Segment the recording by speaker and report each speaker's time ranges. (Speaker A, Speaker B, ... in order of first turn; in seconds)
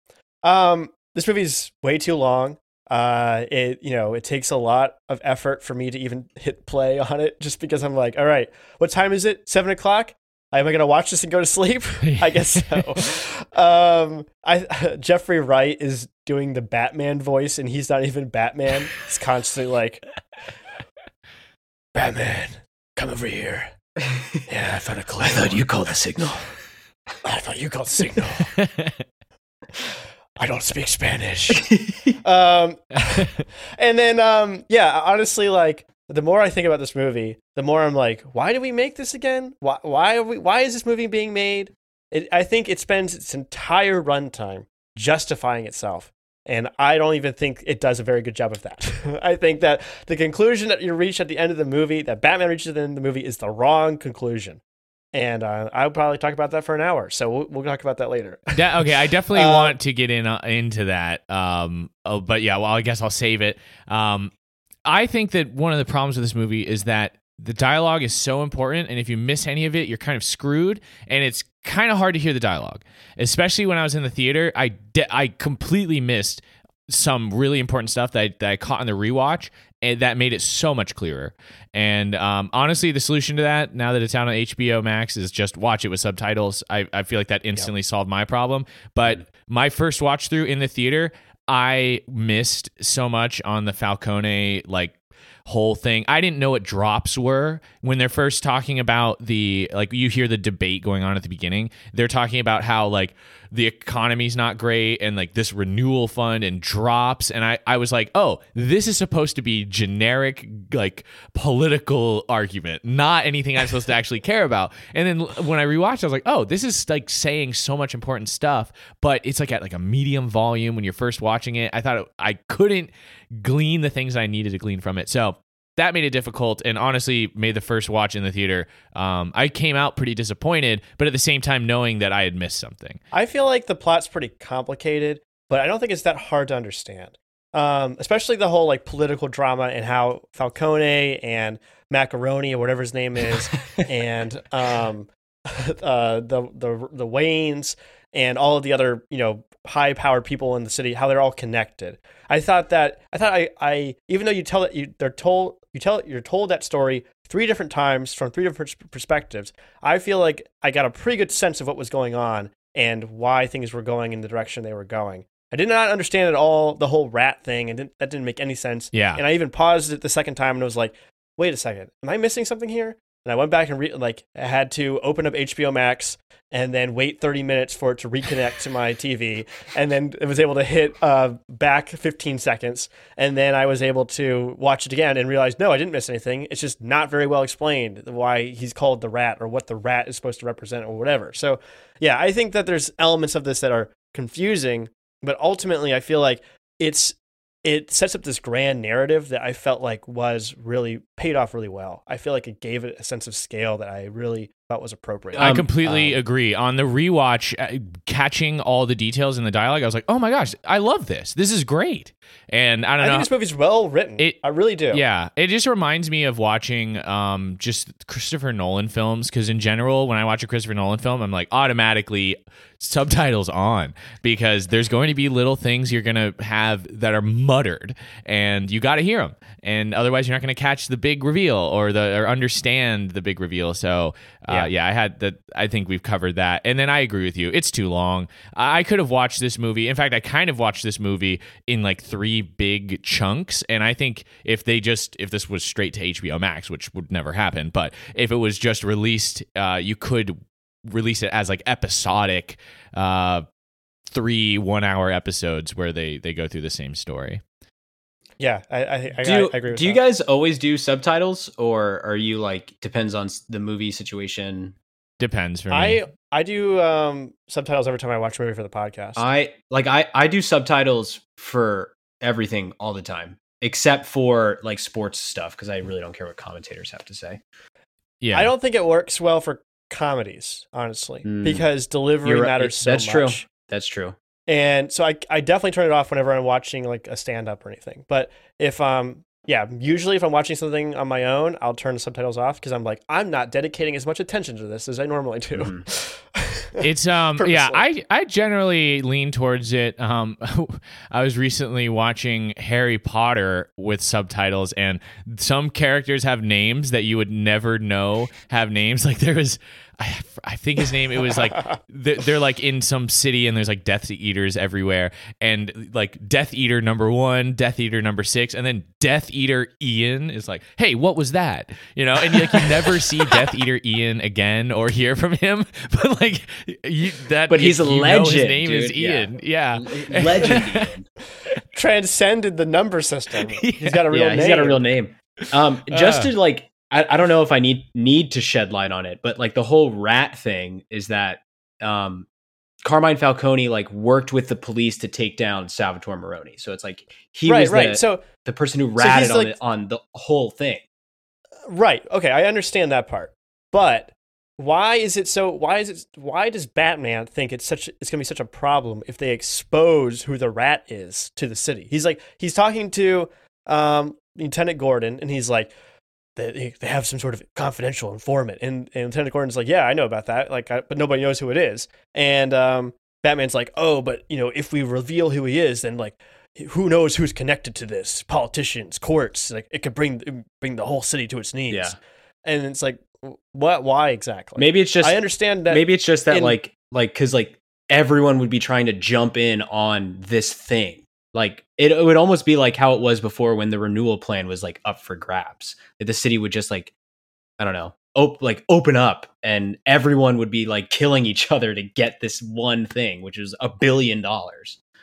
Speaker A: 0.4-20.0, 21.9-23.7, 24.5-25.7, 27.2-28.5, 30.4-31.7, 32.2-54.6, 55.1-59.8, 133.1-206.2, 213.0-215.0, 258.4-260.0, 265.7-269.3, 278.3-283.4, 284.5-297.8, 311.3-311.6, 331.7-334.8, 347.5-348.3, 349.0-349.6, 351.7-365.7, 366.4-386.6
Speaker B: 12.0-12.8, 28.6-29.0, 58.5-64.3, 64.9-95.0, 95.5-133.0, 168.9-169.2, 205.4-213.3, 214.9-253.4, 254.1-257.4, 265.2-266.0, 278.2-278.5, 296.8-330.8, 333.5-334.0, 335.9-336.3
Speaker C: 25.2-26.5, 31.7-32.2, 205.3-205.7, 259.2-264.8, 269.2-277.4, 281.2-281.6, 282.2-284.2, 295.6-295.8, 327.5-331.1, 334.1-342.3, 342.8-350.8, 381.7-382.0, 384.6-385.2, 385.7-396.9, 397.6-404.8